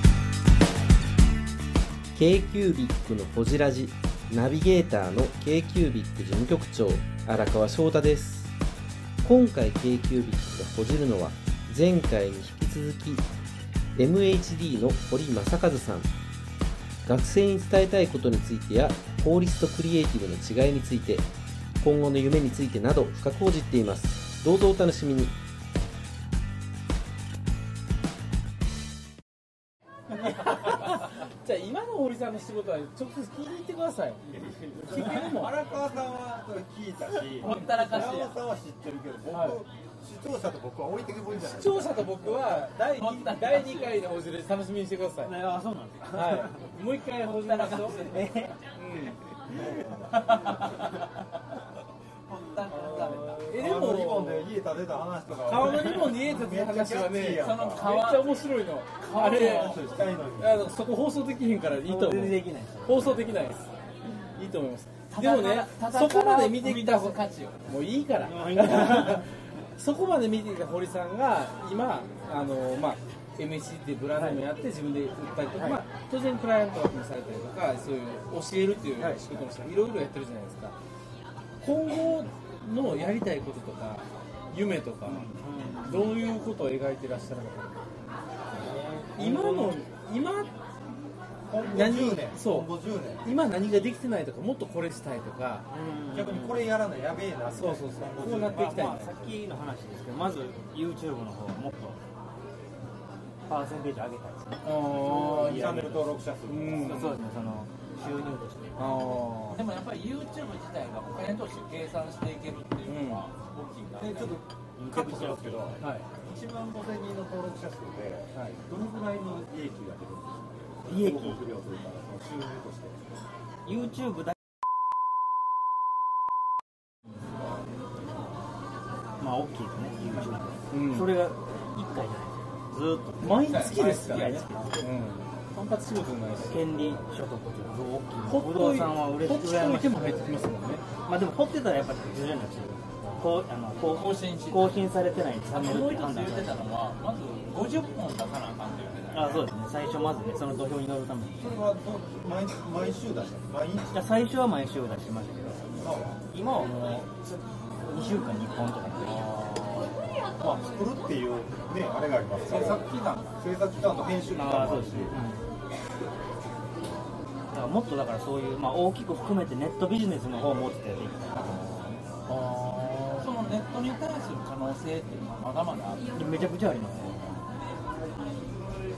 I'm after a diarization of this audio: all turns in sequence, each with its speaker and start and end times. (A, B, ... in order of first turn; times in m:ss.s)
0:02.1-0:08.5 A
0:09.2-0:13.3 A
0:14.0-0:16.1 A
0:17.0-0:21.2 A
0:21.8-0:25.3 A
0:30.1-0:35.6 B
0:34.3-0:42.5 C
0:37.3-0:38.4 D
0:39.3-0:39.6 B
0:41.4-0:45.5 B
0:42.8-0:44.0 D
0:45.2-0:46.7 E
0:46.1-0:48.2 B
0:47.3-0:48.3 D
0:48.1-0:48.6 E
0:48.7-0:49.2 B
0:49.5-0:50.7 C
0:50.1-0:51.0 D
0:52.3-0:53.4 D
0:52.7-0:53.1 E
0:53.0-0:57.9 C
0:53.5-0:54.5 B
0:55.4-0:59.8 B
0:57.4-0:58.4 D
0:59.0-1:00.0 D
0:59.1-1:00.7 C
1:00.4-1:03.7 B
1:01.8-1:03.2 E
1:04.4-1:20.8 B
1:05.1-1:07.7 D
1:08.2-1:09.3 E
1:14.2-1:14.4 E
1:15.5-1:15.8 E
1:19.0-1:19.3 E
1:21.6-1:27.8 B
1:25.0-1:26.2 E
1:28.6-1:29.5 C
1:28.6-1:29.8 E
1:29.2-1:30.5 B
1:31.5-1:33.3 C
1:31.6-1:35.6 B
1:35.7-1:36.7 E
1:36.1-1:38.7 C
1:37.5-1:39.2 B
1:38.3-1:42.0 E
1:43.5-1:46.1 E
1:44.6-1:45.9 B
1:45.0-1:47.0 C
1:46.4-1:47.1 B
1:46.8-1:48.6 E
1:48.8-1:49.6 B
1:49.5-1:54.4 D
1:52.8-1:53.2 B
1:54.0-2:03.0 C
1:54.8-1:55.8 E
1:55.8-1:56.0 B
1:58.3-1:58.6 B
2:00.8-2:01.4 E
2:03.6-2:04.3 E
2:09.2-2:14.8 E
2:10.7-2:11.1 B
2:13.2-2:16.7 B
2:13.5-2:14.5 D
2:16.5-2:20.3 E
2:18.2-2:20.8 B
2:21.0-2:26.6 E
2:23.9-2:24.8 D
2:25.5-2:29.5 D
2:29.1-2:31.5 E
2:31.4-2:33.9 C
2:33.9-2:35.6 E
2:35.8-2:36.2 C
2:36.3-2:39.4 E
2:40.4-2:45.2 C
2:42.5-2:43.3 D
2:44.3-2:45.4 E
2:47.5-2:52.0 E
2:52.3-2:53.3 B
2:53.2-2:56.0 D
2:56.2-2:57.6 E